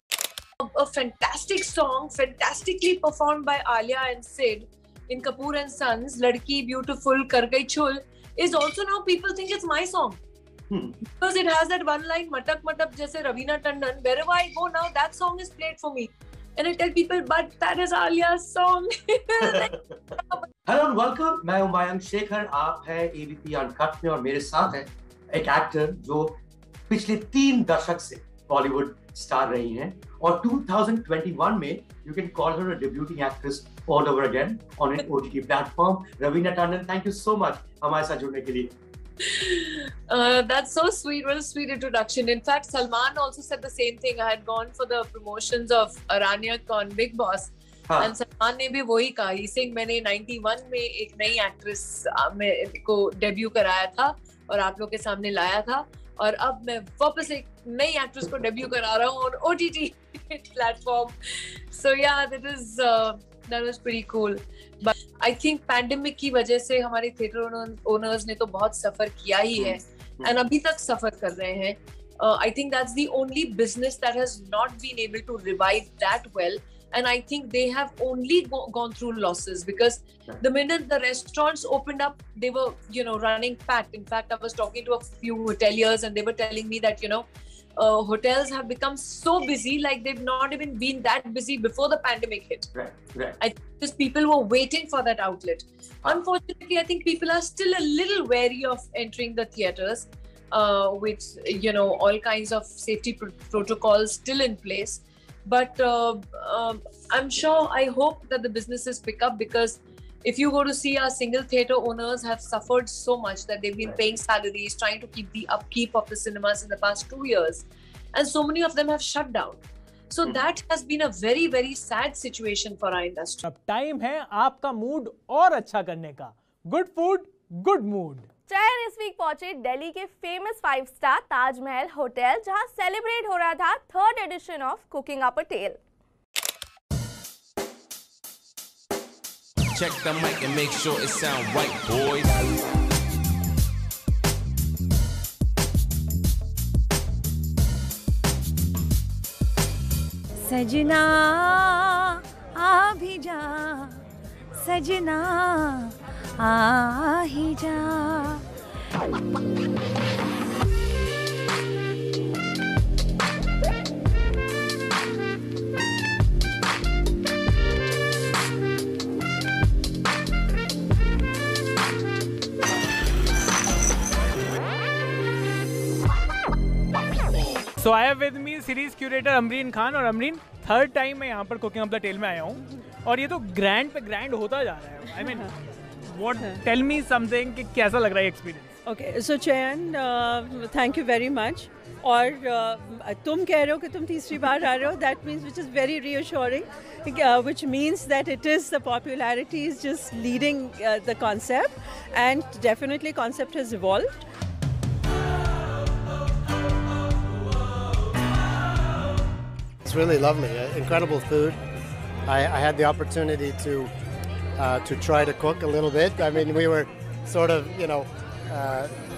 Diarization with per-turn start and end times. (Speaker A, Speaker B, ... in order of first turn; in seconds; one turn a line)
Speaker A: 0.6-10.2
Speaker A: 11.2-19.6
Speaker B: 20.6-26.4
Speaker B: 26.9-38.7
Speaker A: 39.3-61.1
Speaker A: 61.7-87.2
Speaker A: 87.8-92.7
Speaker B: 92.8-93.3
Speaker A: 93.4-123.4
Speaker C: 123.5-128.3
Speaker D: 128.5-135.8
Speaker E: 139.7-142.4
Speaker F: 150.4-154.0
Speaker F: 154.6-158.4
Speaker C: 177.8-185.5
Speaker G: 185.2-185.5
Speaker C: 186.1-188.7
Speaker G: 186.3-186.6
Speaker G: 188.8-204.2
Speaker H: 209.8-211.6
Speaker H: 212.3-213.9
Speaker H: 214.6-218.9